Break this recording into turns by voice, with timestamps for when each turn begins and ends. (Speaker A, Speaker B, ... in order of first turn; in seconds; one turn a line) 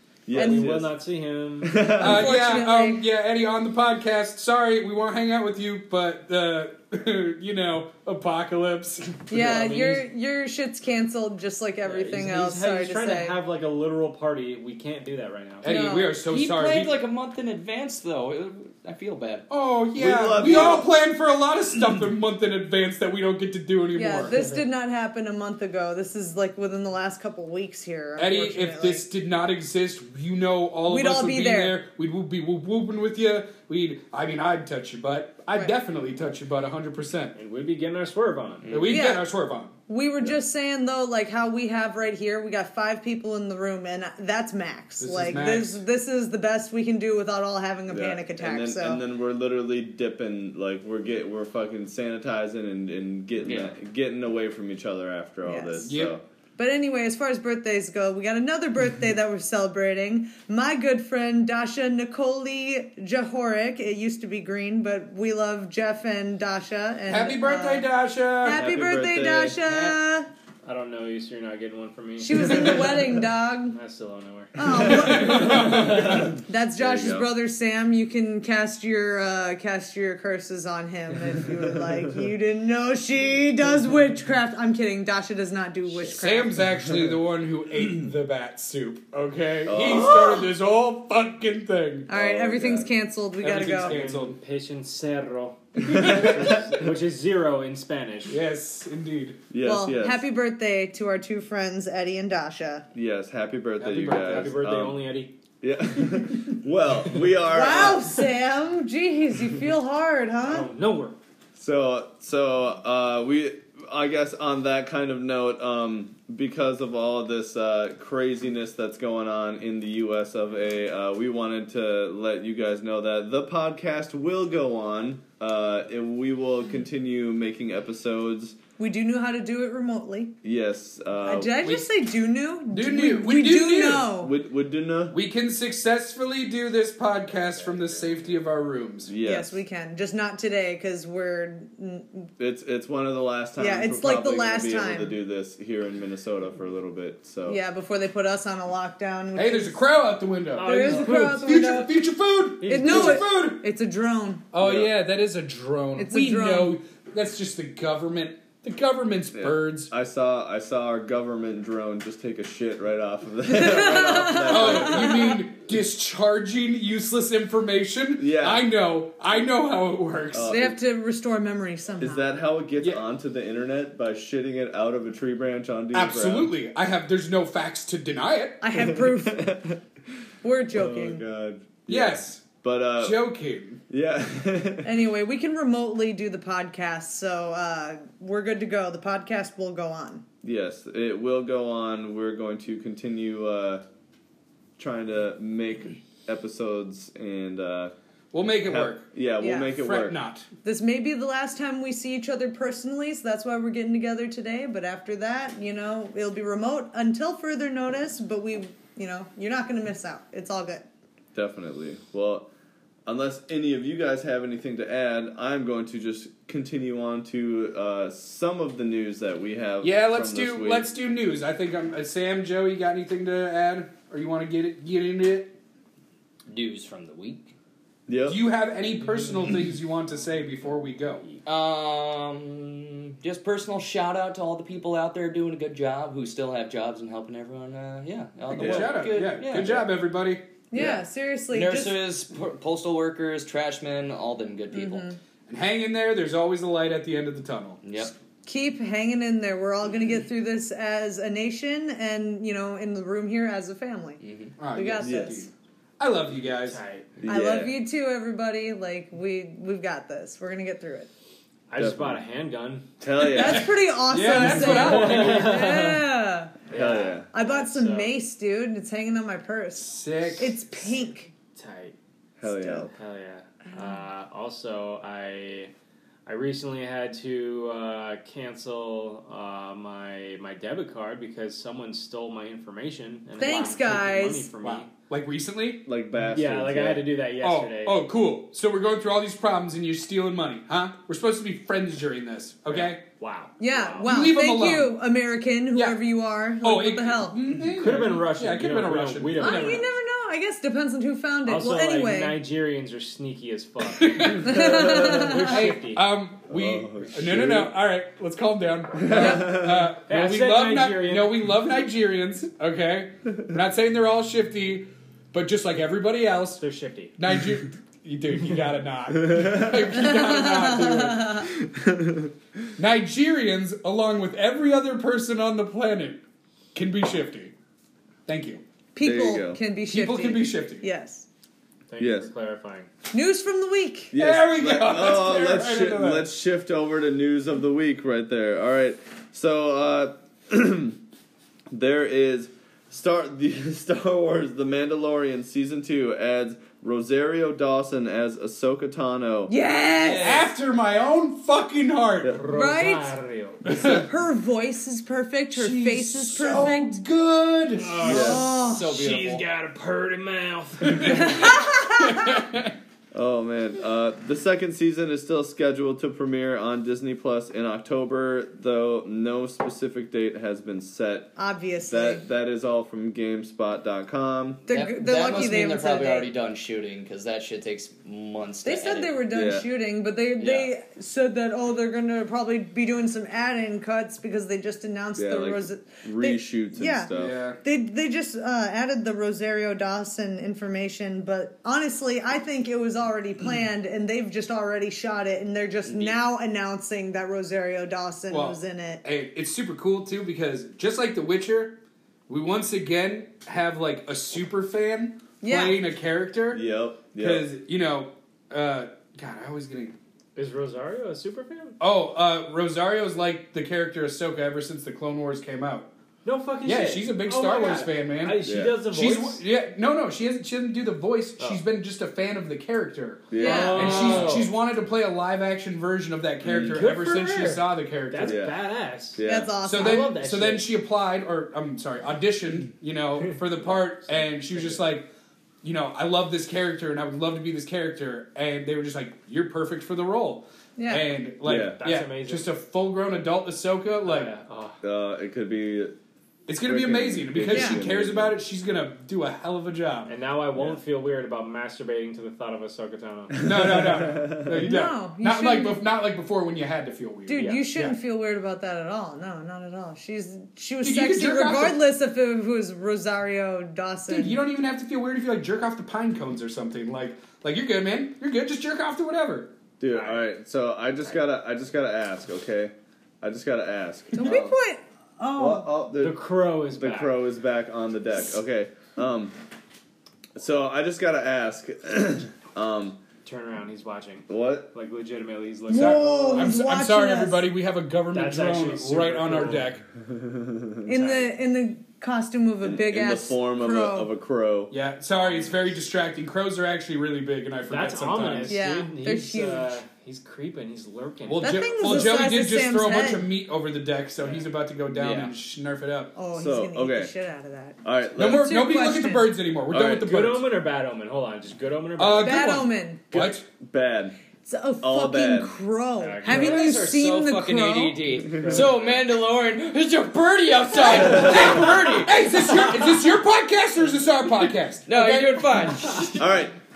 Speaker A: 0.3-0.9
Speaker B: 0.3-1.8
Speaker C: 0.3-0.7
Speaker A: 1.6-2.3
Speaker C: 1.9-3.0
Speaker D: 2.0-10.1
Speaker C: 9.3-13.4
Speaker B: 11.8-15.7
Speaker D: 15.6-17.0
Speaker C: 15.6-16.2
Speaker E: 16.2-19.5
Speaker D: 19.5-24.4
Speaker A: 19.9-20.9
Speaker C: 23.9-29.0
Speaker B: 24.3-24.7
Speaker D: 28.2-37.4
Speaker C: 30.9-31.8
Speaker C: 35.5-35.8
Speaker B: 37.4-38.8
Speaker E: 38.7-39.0
Speaker D: 38.7-39.8
Speaker C: 38.9-39.3
Speaker C: 39.9-49.0
Speaker D: 45.0-45.8
Speaker A: 47.9-56.2
Speaker E: 53.4-53.7
Speaker C: 55.5-55.9
Speaker D: 55.9-56.2
Speaker C: 56.6-67.9
Speaker D: 67.1-68.7
Speaker C: 68.4-70.3
Speaker A: 68.5-69.8
Speaker B: 70.7-73.0
Speaker C: 72.2-73.8
Speaker B: 73.7-76.2
Speaker C: 74.6-86.6
Speaker D: 74.7-76.4
Speaker A: 75.0-77.3
Speaker D: 86.1-92.1
Speaker A: 89.7-90.4
Speaker C: 89.9-90.3
Speaker C: 92.1-94.0
Speaker A: 92.1-92.9
Speaker D: 93.4-94.4
Speaker B: 93.8-98.4
Speaker D: 95.8-96.7
Speaker A: 95.9-96.6
Speaker D: 98.3-99.4
Speaker A: 99.5-100.2
Speaker C: 99.6-102.9
Speaker A: 102.9-105.0
Speaker B: 103.8-105.4
Speaker A: 105.6-108.2
Speaker C: 107.5-110.7
Speaker B: 110.4-111.2
Speaker A: 111.6-128.6
Speaker C: 128.8-130.3
Speaker A: 130.4-131.6
Speaker C: 131.2-134.3
Speaker D: 132.7-134.1
Speaker A: 134.2-135.2
Speaker D: 135.1-139.1
Speaker B: 137.3-138.5
Speaker A: 139.1-139.6
Speaker C: 139.2-142.3
Speaker A: 142.4-147.6
Speaker C: 143.6-145.2
Speaker C: 147.5-149.8
Speaker D: 149.3-153.7
Speaker B: 150.6-151.5
Speaker C: 150.6-152.0
Speaker B: 152.6-153.3
Speaker C: 152.7-154.4
Speaker D: 154.5-159.9
Speaker A: 154.6-154.9
Speaker C: 156.0-156.8
Speaker A: 159.3-165.3
Speaker C: 163.5-165.4
Speaker D: 164.5-170.6
Speaker A: 168.2-168.7
Speaker A: 170.3-170.8
Speaker C: 170.4-172.2
Speaker A: 172.0-176.5
Speaker D: 175.9-178.7
Speaker C: 178.6-179.5
Speaker A: 178.8-179.8
Speaker C: 180.4-181.2
Speaker A: 180.7-183.2
Speaker D: 181.9-183.8
Speaker A: 183.9-184.9
Speaker C: 184.8-190.2
Speaker A: 190.4-193.8
Speaker A: 194.8-197.9
Speaker D: 198.3-199.1
Speaker A: 198.6-200.2
Speaker C: 199.4-199.7
Speaker D: 199.8-200.5
Speaker C: 200.6-210.9
Speaker A: 211.3-212.5
Speaker A: 213.1-220.9
Speaker D: 219.8-225.6
Speaker E: 226.5-227.5
Speaker A: 228.1-228.4
Speaker D: 228.3-231.3
Speaker E: 231.4-239.8
Speaker D: 238.5-240.6
Speaker A: 238.5-239.1
Speaker C: 240.7-242.0
Speaker E: 240.7-245.1
Speaker C: 244.7-245.2
Speaker D: 245.5-247.8
Speaker E: 247.8-248.1
Speaker C: 248.4-254.2
Speaker E: 254.2-254.6
Speaker D: 254.6-256.8
Speaker C: 254.7-255.5
Speaker A: 255.0-255.3
Speaker B: 256.4-257.1
Speaker A: 257.2-257.8
Speaker C: 257.3-261.1
Speaker B: 261.7-262.9
Speaker A: 261.8-262.2
Speaker A: 263.0-263.8
Speaker C: 263.2-266.6
Speaker D: 263.3-266.0
Speaker B: 264.4-266.1
Speaker B: 266.7-268.1
Speaker A: 266.7-267.3
Speaker C: 267.3-271.3
Speaker D: 269.8-270.6
Speaker B: 271.5-271.9
Speaker A: 272.4-272.9
Speaker C: 272.4-272.9
Speaker B: 272.9-275.7
Speaker C: 273.7-274.0
Speaker B: 276.3-284.9
Speaker C: 283.4-284.5
Speaker D: 284.6-285.9
Speaker A: 285.9-287.1
Speaker B: 286.3-288.1
Speaker D: 287.4-293.1
Speaker B: 292.7-294.1
Speaker C: 293.6-297.4
Speaker D: 294.0-295.0
Speaker D: 295.7-296.0
Speaker D: 296.6-299.9
Speaker B: 297.6-299.9
Speaker C: 299.4-302.4
Speaker B: 301.5-306.0
Speaker D: 303.9-316.6
Speaker C: 304.4-305.7
Speaker A: 306.5-307.7
Speaker A: 308.9-309.9
Speaker B: 310.1-311.6
Speaker B: 316.6-317.1
Speaker D: 317.2-321.5
Speaker A: 319.1-319.8
Speaker C: 320.0-321.5
Speaker A: 321.5-322.3
Speaker D: 322.8-326.2
Speaker D: 326.8-327.5
Speaker D: 328.3-328.6
Speaker C: 328.9-331.3
Speaker A: 329.0-329.6
Speaker D: 329.9-330.9
Speaker B: 331.9-332.9
Speaker A: 332.0-332.3
Speaker C: 333.1-334.1
Speaker A: 334.1-341.0
Speaker D: 334.1-336.3
Speaker A: 341.7-349.5
Speaker C: 349.5-350.5
Speaker D: 350.1-352.4
Speaker B: 352.3-353.6
Speaker C: 352.5-353.2
Speaker D: 353.6-354.1
Speaker C: 353.7-357.0
Speaker D: 355.5-358.2
Speaker B: 357.8-361.5
Speaker A: 358.0-358.5
Speaker C: 358.1-358.9
Speaker E: 358.1-359.5
Speaker D: 360.8-362.8
Speaker C: 361.1-362.4
Speaker A: 363.1-374.7
Speaker C: 371.4-372.3
Speaker C: 374.7-376.3
Speaker E: 374.7-379.2
Speaker C: 378.6-387.1
Speaker A: 379.3-379.7
Speaker E: 380.4-380.7
Speaker A: 385.2-387.4
Speaker D: 387.1-387.6
Speaker C: 387.6-399.0
Speaker E: 395.9-396.2
Speaker D: 398.3-406.6
Speaker C: 405.4-405.8
Speaker A: 406.5-407.5
Speaker D: 407.1-410.0
Speaker B: 410.4-411.8
Speaker D: 411.8-415.9
Speaker B: 416.2-419.4
Speaker D: 416.6-428.4
Speaker A: 418.4-418.8
Speaker A: 423.3-424.1
Speaker B: 423.4-424.6
Speaker C: 423.4-424.3
Speaker A: 426.4-426.8
Speaker B: 426.5-430.7
Speaker A: 428.2-428.6
Speaker A: 429.1-429.5
Speaker C: 429.3-430.1
Speaker D: 429.6-435.1
Speaker B: 434.1-434.8
Speaker D: 435.6-444.3
Speaker C: 440.8-441.1
Speaker A: 441.4-441.8
Speaker B: 441.8-442.5
Speaker B: 444.0-444.8
Speaker A: 444.8-445.9
Speaker D: 446.5-450.1
Speaker A: 446.7-448.4
Speaker C: 447.5-447.8
Speaker B: 450.1-453.4
Speaker A: 453.3-454.7
Speaker D: 453.4-458.0
Speaker C: 454.6-455.8
Speaker C: 457.3-464.4
Speaker B: 457.4-457.6
Speaker D: 460.8-461.8
Speaker D: 464.1-469.5
Speaker A: 469.8-474.6
Speaker B: 469.9-470.2
Speaker C: 474.1-475.7
Speaker A: 475.4-476.2
Speaker B: 476.0-477.2
Speaker A: 476.7-479.3
Speaker A: 480.4-483.0
Speaker B: 483.2-486.6
Speaker A: 484.3-484.7
Speaker D: 485.7-489.9
Speaker C: 485.7-487.4
Speaker B: 488.1-489.7
Speaker A: 490.0-490.9
Speaker C: 490.9-494.1
Speaker B: 491.0-491.3
Speaker A: 492.6-494.7
Speaker D: 494.7-498.6
Speaker B: 495.2-495.6
Speaker B: 497.7-502.0
Speaker C: 498.5-499.8
Speaker D: 501.3-506.2
Speaker C: 501.4-503.3
Speaker E: 504.9-505.3
Speaker C: 506.2-509.3
Speaker A: 506.3-507.1
Speaker A: 507.8-508.5
Speaker D: 508.2-510.4
Speaker A: 509.7-510.1
Speaker B: 510.0-512.6
Speaker D: 512.0-513.5
Speaker C: 512.2-513.1
Speaker A: 513.1-514.2
Speaker C: 514.4-518.1
Speaker A: 514.8-515.5
Speaker B: 516.0-516.7
Speaker E: 516.2-522.6
Speaker B: 518.4-518.8
Speaker D: 520.8-526.0
Speaker A: 521.0-521.7
Speaker E: 524.9-526.2
Speaker A: 526.2-526.5